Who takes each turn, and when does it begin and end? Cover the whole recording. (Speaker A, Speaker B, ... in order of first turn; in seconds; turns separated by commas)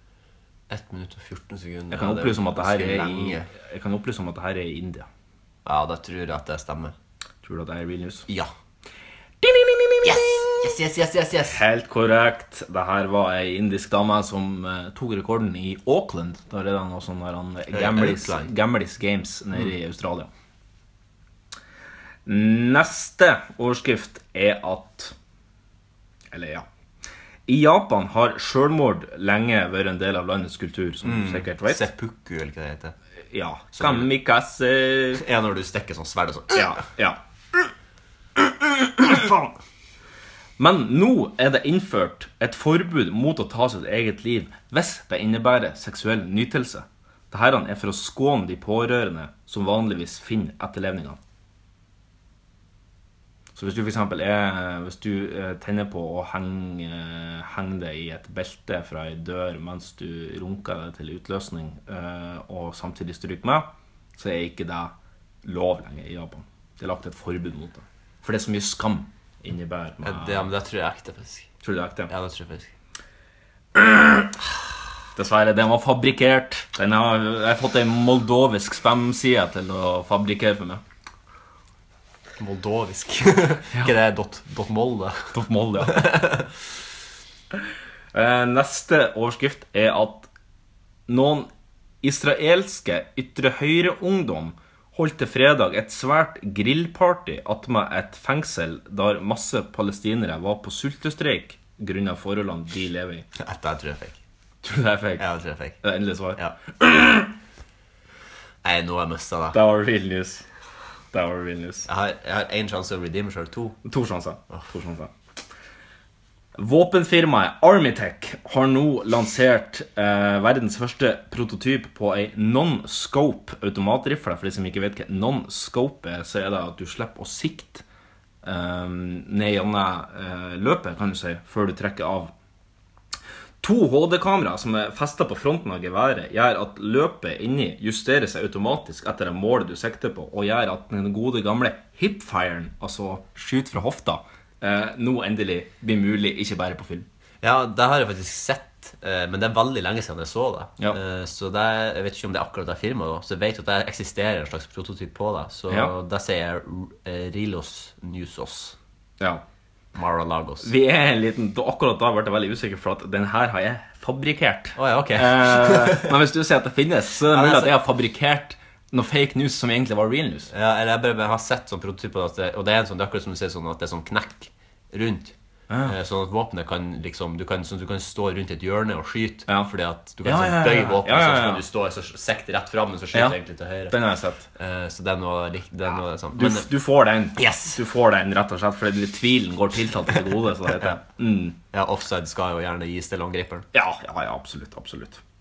Speaker A: 0.7-3.5, Speaker B: 1.9-5.1, Speaker A: 5.6-6.9, Speaker B: 7.4-8.3, Speaker B: 9.4-10.7, Speaker A: 10.0-11.6, Speaker B: 11.5-20.3, Speaker A: 17.7-18.5, Speaker B: 22.2-25.1, Speaker B: 26.3-26.6, Speaker B: 27.5-31.8, Speaker A: 31.0-32.9, Speaker B: 33.3-35.2, Speaker A: 33.7-34.1, Speaker A: 35.1-36.8, Speaker B: 36.5-37.2, Speaker B: 39.0-39.5, Speaker B: 40.6-51.2, Speaker B: 53.5-70.5, Speaker A: 70.0-71.5, Speaker B: 71.6-72.1, Speaker A: 72.1-72.7, Speaker B: 73.7-74.3, Speaker B: 75.2-80.8, Speaker A: 82.4-86.5, Speaker B: 85.3-86.1, Speaker B: 88.1-90.3, Speaker B: 91.1-91.5, Speaker B: 92.0-103.2, Speaker A: 103.4-104.2, Speaker B: 104.6-105.2, Speaker A: 105.2-105.8, Speaker B: 105.8-107.3, Speaker A: 108.6-109.6, Speaker B: 109.5-110.4, Speaker B: 111.1-111.9, Speaker A: 111.8-113.8, Speaker B: 113.8-115.1, Speaker B: 116.5-127.8, Speaker B: 128.4-132.3, Speaker B: 133.6-147.1, Speaker A: 147.4-158.8, Speaker A: 159.9-160.7, Speaker B: 160.6-170.5, Speaker A: 164.8-166.1, Speaker A: 167.3-167.8, Speaker A: 170.5-184.0, Speaker B: 175.7-175.9, Speaker B: 180.2-181.6, Speaker B: 183.1-184.5, Speaker A: 184.5-186.7, Speaker B: 186.3-191.6, Speaker A: 187.4-187.8, Speaker A: 191.7-193.6, Speaker B: 193.7-195.2